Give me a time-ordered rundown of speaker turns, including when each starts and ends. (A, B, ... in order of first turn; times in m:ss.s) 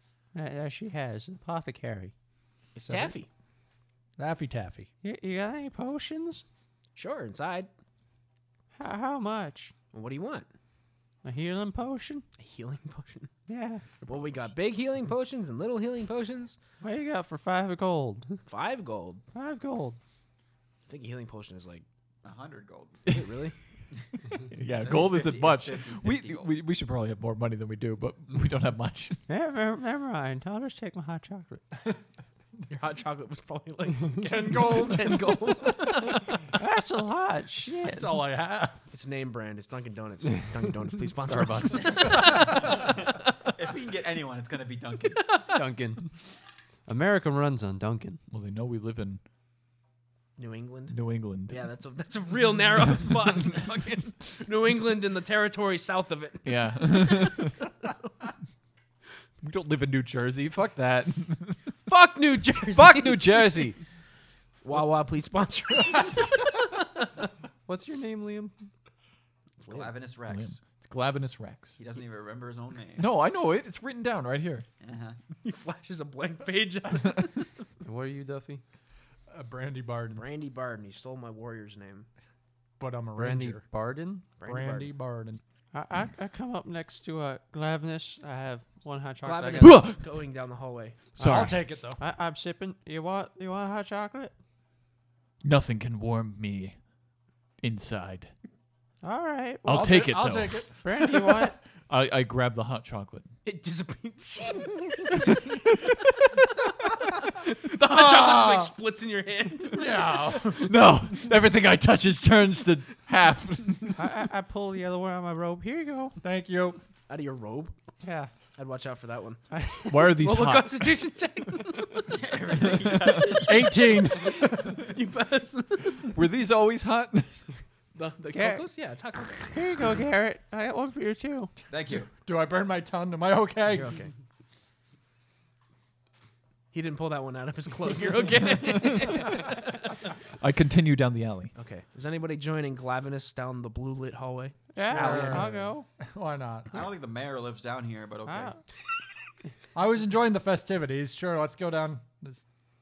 0:00.3-0:02.1 A
0:02.8-0:03.3 B
0:02.8-0:03.2 C
0:04.2-0:04.9 C
0:05.0-0:06.4 A
0:07.0-0:07.7 B
0:08.8-0:09.7 A
0:09.9-0:10.5 B
0:11.2-0:12.2 A
0:12.4-0:13.3 B
0:13.5-0:13.8 A
0:14.0-0:16.6 B
0:16.8-0:18.4 A
0:18.4-0:19.2 B
0:19.3-0:20.0 A
0:20.9-0:21.8 B
0:22.2-0:23.0 D
0:23.1-0:23.6 B
0:24.5-0:29.2 E
0:24.7-0:26.5 D
0:29.3-0:31.6 A
0:32.7-0:36.5 B
0:34.2-0:35.5 C
0:36.6-0:38.2 A
0:37.8-0:38.8 C
0:38.9-0:42.9 B
0:41.2-0:42.2 F
0:42.2-0:42.9 C
0:42.5-0:45.2 D
0:45.1-0:45.6 B
0:45.5-0:46.1 F
0:46.8-0:48.2 F
0:48.3-0:49.2 E
0:50.4-0:51.0 B
0:50.9-0:51.6 E
0:51.5-0:57.4 B
0:56.4-0:57.6 E
0:59.4-1:01.6 E
1:01.9-1:03.6 B
1:02.7-1:03.8 E
1:04.6-1:07.3 B
1:07.6-1:08.7 F
1:09.6-1:09.9 B
1:09.6-1:10.6 D
1:10.3-1:11.8 E
1:11.8-1:13.1 D
1:13.0-1:14.6 E
1:14.8-1:15.2 D
1:15.4-1:17.5 B
1:17.8-1:18.6 F
1:19.3-1:20.2 C
1:20.1-1:22.1 B
1:22.8-1:23.6 C
1:23.2-1:24.3 F
1:24.4-1:24.9 B
1:24.4-1:25.4 C
1:25.7-1:29.8 A
1:29.2-1:31.2 B
1:29.6-1:30.0 E
1:31.2-1:31.6 E
1:31.2-1:32.0 C
1:31.2-1:34.3 A
1:35.4-1:36.8 E
1:37.6-1:38.3 E
1:39.0-1:40.0 A
1:39.6-1:43.3 E
1:39.7-1:41.2 C
1:40.8-1:41.6 A
1:43.4-1:45.4 B
1:46.7-1:50.4 B
1:47.8-1:48.7 C
1:49.7-1:50.7 C
1:50.4-1:54.1 E
1:54.0-1:56.2 A
1:56.2-1:56.8 C
1:57.1-1:57.7 B
1:58.0-1:58.3 A
1:58.5-1:59.5 B
1:59.5-2:00.1 A
1:59.9-2:00.9 E
2:00.0-2:02.2 B
2:02.1-2:04.1 D
2:02.8-2:03.1 E
2:03.4-2:04.9 C
2:04.5-2:06.1 B
2:06.1-2:07.5 E
2:07.9-2:09.7 B
2:08.3-2:08.6 A
2:09.5-2:11.5 A
2:11.7-2:12.1 D
2:12.1-2:14.0 C
2:13.7-2:14.1 B
2:16.7-2:20.1 B
2:18.8-2:19.3 E
2:20.4-2:21.5 E
2:21.5-2:25.5 B
2:24.7-2:25.9 A
2:24.8-2:26.9 C
2:26.7-2:28.6 D
2:28.2-2:28.6 A
2:29.7-2:32.4 C